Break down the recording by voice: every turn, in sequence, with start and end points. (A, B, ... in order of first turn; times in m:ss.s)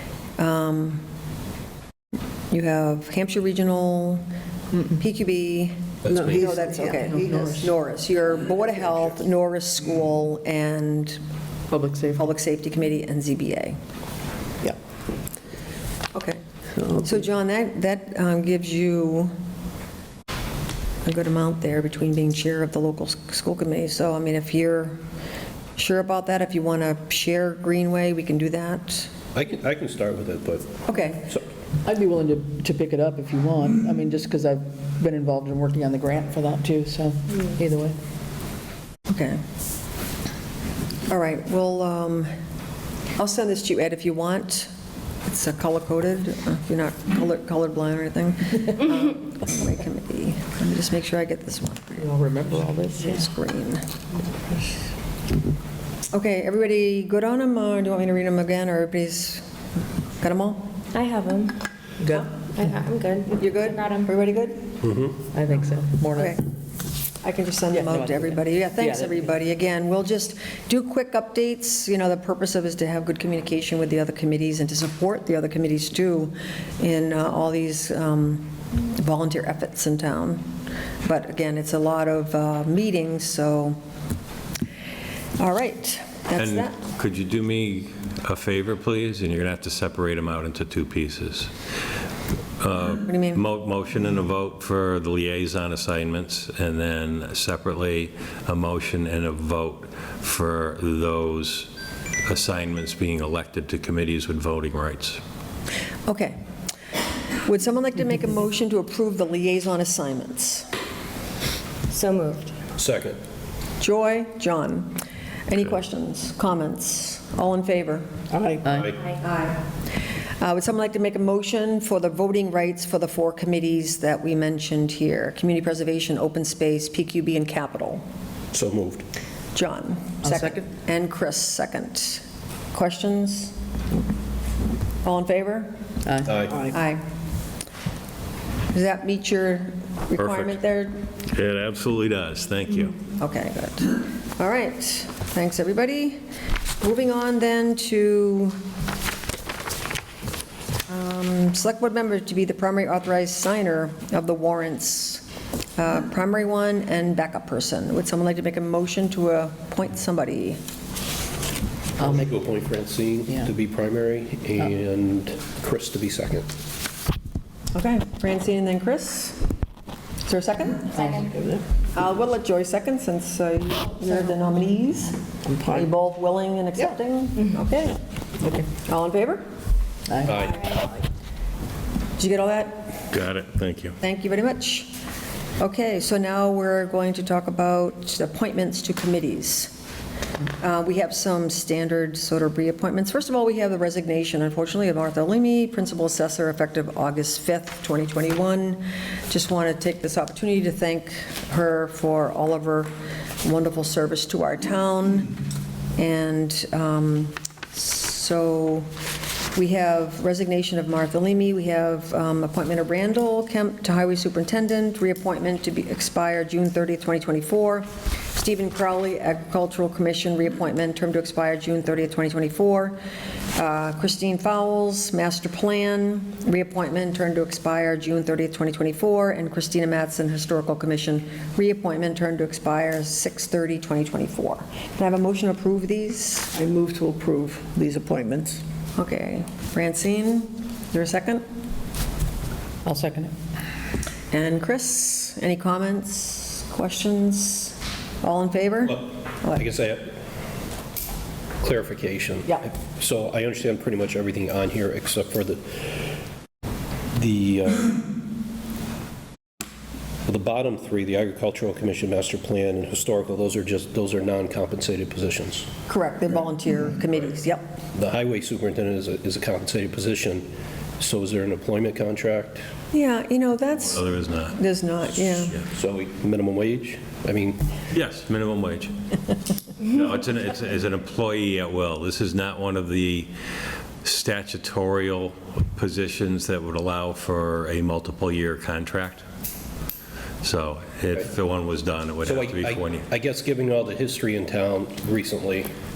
0:00.4-0:01.0 A
0:02.5-0:04.2 A
0:04.9-0:11.2 A
0:06.0-0:06.4 B
0:06.2-0:06.9 C
0:06.2-0:07.7 D
0:11.7-0:12.3 D
0:12.1-0:13.8 A
0:16.1-0:19.3 A
0:21.0-0:25.0 A
0:25.8-0:29.1 A
0:29.3-0:31.4 B
0:30.8-0:31.3 A
0:31.8-0:38.0 D
0:39.1-0:39.4 A
0:41.1-0:42.3 A
0:43.2-0:44.7 A
0:45.2-0:52.1 A
0:52.0-0:53.2 D
0:53.0-0:53.8 A
0:56.1-0:59.4 A
1:00.2-1:00.7 A
1:00.9-1:01.6 E
1:02.0-1:02.6 D
1:02.4-1:04.1 E
1:03.3-1:04.7 A
1:04.8-1:05.2 B
1:05.3-1:06.3 D
1:06.1-1:06.4 A
1:07.2-1:20.4 A
1:07.7-1:09.2 D
1:21.0-1:23.8 A
1:25.4-1:26.8 A
1:26.4-1:31.5 F
1:32.6-1:41.7 F
1:33.0-1:33.4 A
1:42.2-1:45.2 F
1:46.1-1:46.4 A
1:47.4-1:50.7 A
1:51.9-1:52.5 E
1:52.8-1:53.2 B
1:53.8-1:58.0 A
1:58.3-1:58.8 C
1:58.6-1:58.9 D
1:58.7-1:59.0 B
1:59.2-1:59.6 A
2:00.4-2:08.0 A
2:08.5-2:09.0 B
2:09.5-2:13.5 A
2:10.2-2:10.6 D
2:15.0-2:15.7 A
2:16.0-2:16.7 D
2:16.3-2:16.6 B
2:16.6-2:17.0 A
2:18.7-2:21.0 A
2:20.2-2:20.5 F
2:21.3-2:23.0 F
2:23.1-2:26.2 A
2:26.8-2:28.6 A
2:30.9-2:35.2 A
2:35.8-2:40.6 A
2:42.0-2:42.3 D
2:42.0-2:46.5 B
2:47.7-2:49.4 A
2:50.2-2:51.0 A
2:50.9-2:51.6 D
2:51.9-2:55.2 A
2:55.5-2:55.9 D
2:55.7-2:58.0 A
2:58.7-2:59.4 A
3:00.1-3:00.9 D
3:00.3-3:00.7 B
3:02.2-3:02.9 A
3:03.1-3:04.0 F
3:04.0-3:05.0 A
3:05.6-3:09.7 A
3:10.6-3:25.3 A
3:26.0-3:28.9 A
3:29.5-3:43.0 A
3:43.5-3:56.5 A
3:56.6-3:58.6 C
3:57.6-3:58.3 D
3:59.0-4:01.4 A
4:02.8-4:03.3 D
4:04.3-4:09.6 A
4:09.5-4:10.2 B
4:11.6-4:15.9 B
4:17.1-4:18.0 B
4:20.2-4:25.7 B
4:25.9-4:27.8 A
4:27.9-4:30.5 B
4:31.0-4:32.6 B
4:32.9-4:35.6 A
4:33.9-4:34.6 F
4:35.7-4:37.6 B
4:37.9-4:38.9 F
4:39.8-4:43.3 F
4:44.0-4:49.2 F
4:50.4-4:53.0 F
4:52.2-4:55.7 B